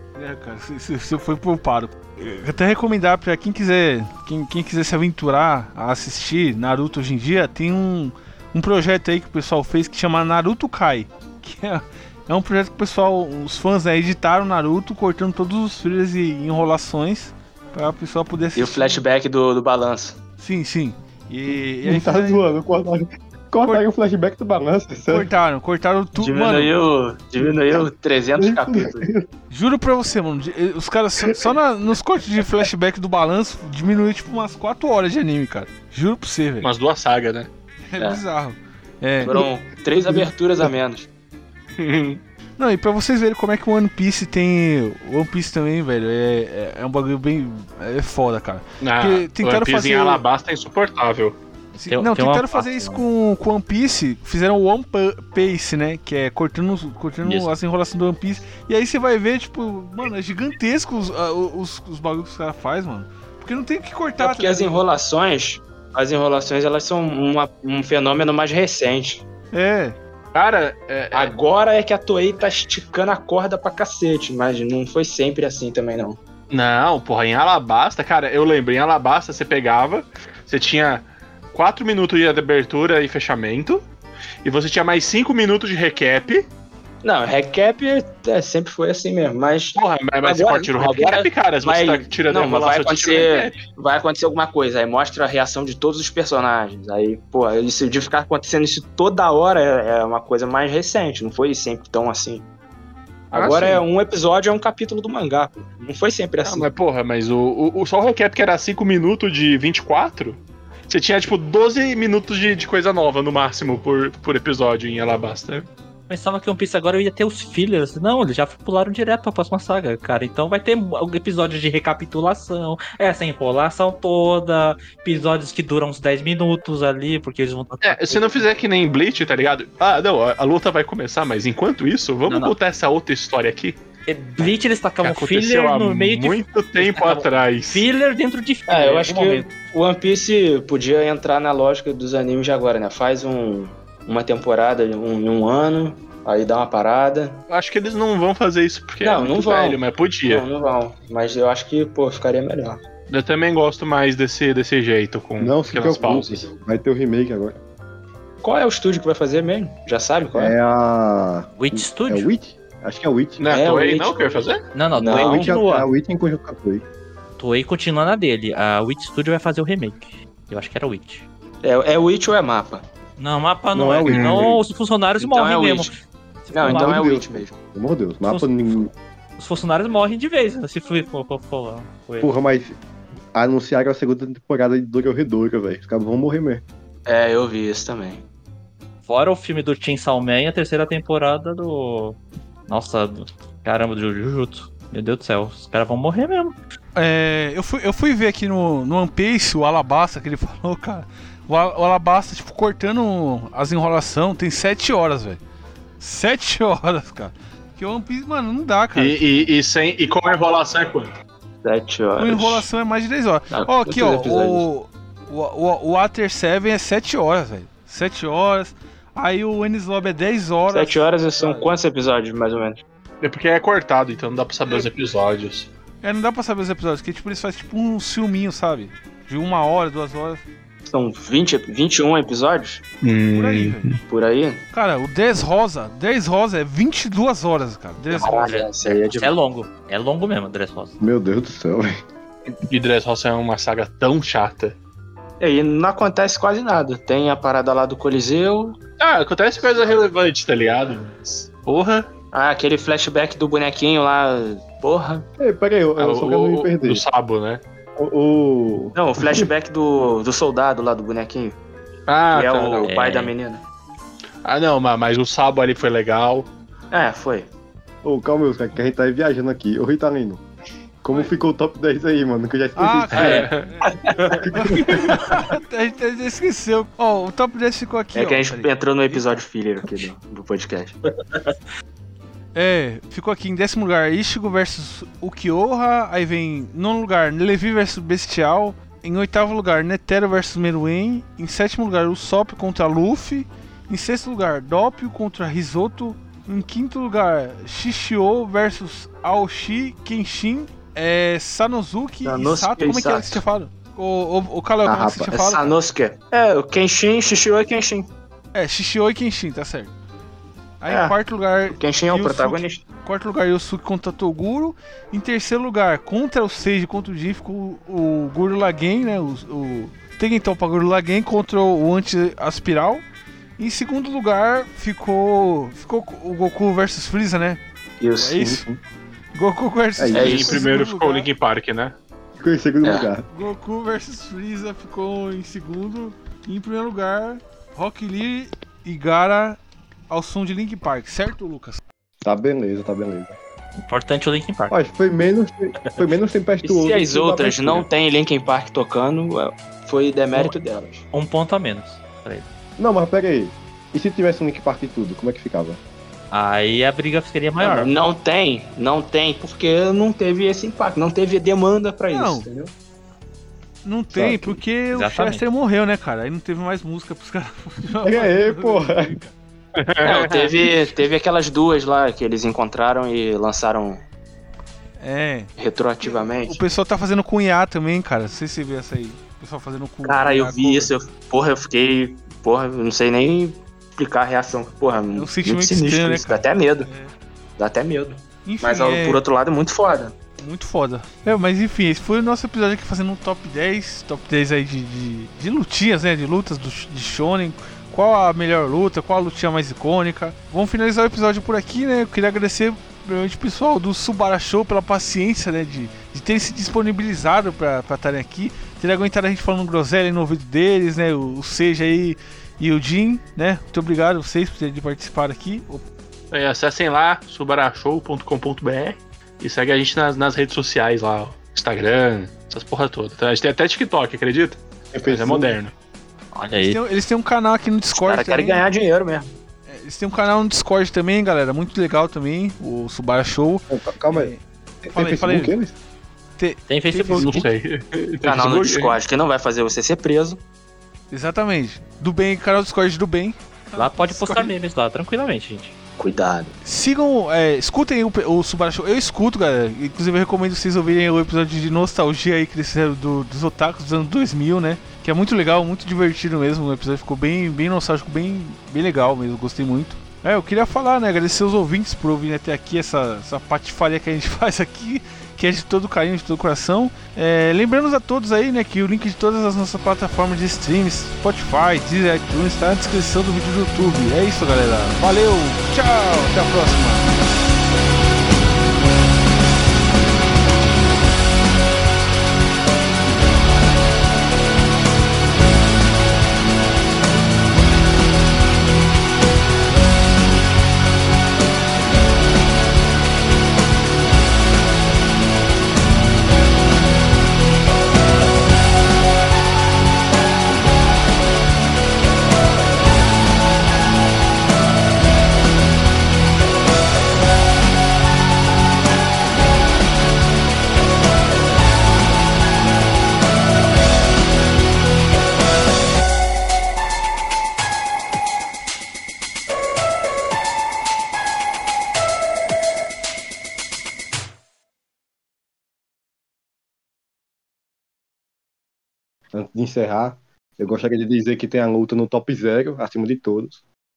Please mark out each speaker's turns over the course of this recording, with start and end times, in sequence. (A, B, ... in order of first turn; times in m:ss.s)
0:00.1-0:19.0 A
0:18.6-0:20.2 B
0:20.4-0:22.4 A
0:21.8-0:25.3 C
0:25.1-0:26.7 A
0:26.2-0:29.1 B
0:28.4-0:29.3 C
0:29.5-0:36.7 A
0:36.6-0:37.5 D
0:37.9-0:39.4 A
0:39.2-0:40.7 C
0:39.2-0:41.1 B
0:41.8-0:42.2 D
0:42.6-0:50.2 A
0:48.8-0:51.4 D
0:51.8-1:04.8 A
0:51.9-0:53.0 E
0:57.2-0:57.5 E
1:04.2-1:09.2 B
1:09.5-1:10.0 A
1:10.3-1:11.3 D
1:11.1-1:16.2 B
1:16.5-1:23.8 D
1:24.4-1:26.4 D
1:27.0-1:42.5 B
1:29.7-1:33.6 D
1:43.3-1:46.7 B
1:43.3-1:43.8 D
1:46.4-1:55.7 D
1:56.1-2:08.4 E
2:07.8-2:13.8 D
2:12.3-2:12.6 E
2:14.1-2:19.5 E
2:15.0-2:17.9 D
2:18.7-2:27.4 B
2:27.5-2:30.4 D
2:29.0-2:32.8 B
2:33.1-2:36.3 D
2:35.4-2:37.6 C
2:38.4-2:40.6 B
2:40.3-2:43.4 C
2:41.6-2:42.3 E
2:43.4-2:44.6 D
2:43.5-2:45.5 B
2:44.7-2:45.9 E
2:45.0-2:46.8 C
2:47.4-2:51.2 E
2:51.6-2:52.8 B
2:53.2-2:57.0 E
2:53.7-2:54.6 C
2:54.1-2:54.5 D
2:55.2-2:55.9 B
2:56.5-2:57.5 B
2:56.6-2:58.9 C
2:58.2-3:02.3 E
3:02.2-3:02.8 C
3:03.3-3:06.6 C
3:07.0-3:08.2 B
3:09.0-3:16.6 E
3:16.9-3:25.4 A
3:26.0-3:29.3 A
3:29.0-3:31.1 D
3:31.6-3:32.6 B
3:32.2-3:41.7 A
3:33.5-3:34.6 B
3:40.7-3:42.8 B
3:43.2-3:45.7 D
3:46.0-3:50.4 A
3:50.9-3:52.8 B
3:53.0-3:54.0 D
3:53.3-3:53.9 A
3:54.0-3:54.6 B
3:54.7-3:58.3 A
3:58.1-3:59.3 B
3:58.2-4:01.0 E
4:01.0-4:02.0 C
4:02.7-4:04.8 D
4:05.4-4:08.8 B
4:09.0-4:12.1 D
4:12.3-4:15.2 B
4:15.4-4:17.0 C
4:16.0-4:17.6 D
4:18.0-4:19.5 C
4:18.9-4:21.6 B
4:22.1-4:22.9 D
4:22.3-4:23.6 B
4:22.8-4:23.3 E
4:24.4-4:26.5 D
4:26.9-4:27.5 B
4:28.0-4:30.4 C
4:31.0-4:33.4 C
4:32.8-4:39.4 A
4:33.1-4:33.7 D
4:33.2-4:33.4 E
4:33.9-4:34.4 B
4:34.3-4:35.1 C
4:38.1-4:41.0 B
4:42.5-5:05.8 A
5:02.2-5:03.4 B
5:04.8-5:05.4 C
5:05.3-5:08.1 B
5:08.5-5:09.9 A
5:10.8-5:23.0 A
5:10.9-5:11.2 B
5:11.7-5:12.8 B
5:23.6-5:27.6 A
5:28.0-5:28.4 B
5:28.2-5:28.6 A
5:28.4-5:28.8 C
5:29.3-5:31.3 A
5:30.0-5:30.4 C
5:30.1-5:31.9 D
5:30.1-5:30.6 B
5:32.4-5:33.3 C
5:32.8-5:33.1 B
5:33.3-5:39.6 A
5:40.1-5:41.8 A
5:42.2-5:43.3 C
5:43.8-5:44.7 E
5:44.7-5:47.9 C
5:46.6-5:51.0 B
5:51.1-5:52.5 E
5:52.8-5:55.8 C
5:56.3-5:57.9 E
5:57.6-6:02.7 B
6:02.1-6:02.5 A
6:03.8-6:09.3 A
6:04.1-6:04.6 C
6:04.9-6:05.4 E
6:08.0-6:09.2 C
6:09.8-6:10.8 D
6:10.0-6:14.0 B
6:15.0-6:20.9 A
6:15.6-6:16.6 B
6:20.0-6:26.9 B
6:25.1-6:27.1 A
6:27.6-6:30.1 B
6:28.4-6:29.2 A
6:30.4-6:55.8 A
6:56.3-7:05.7 D
7:04.9-7:05.6 C
7:06.3-7:06.8 E
7:06.6-7:08.6 A
7:07.9-7:09.3 B
7:09.7-7:14.4 A
7:13.7-7:14.3 C
7:14.8-7:15.7 C
7:14.9-7:15.6 A
7:16.4-7:17.4 A
7:16.7-7:17.5 E
7:17.2-7:19.0 D
7:18.2-7:20.4 B
7:21.1-7:24.5 A
7:23.8-7:25.7 E
7:26.0-7:26.5 B
7:26.6-7:57.1 A
8:49.3-8:53.6 C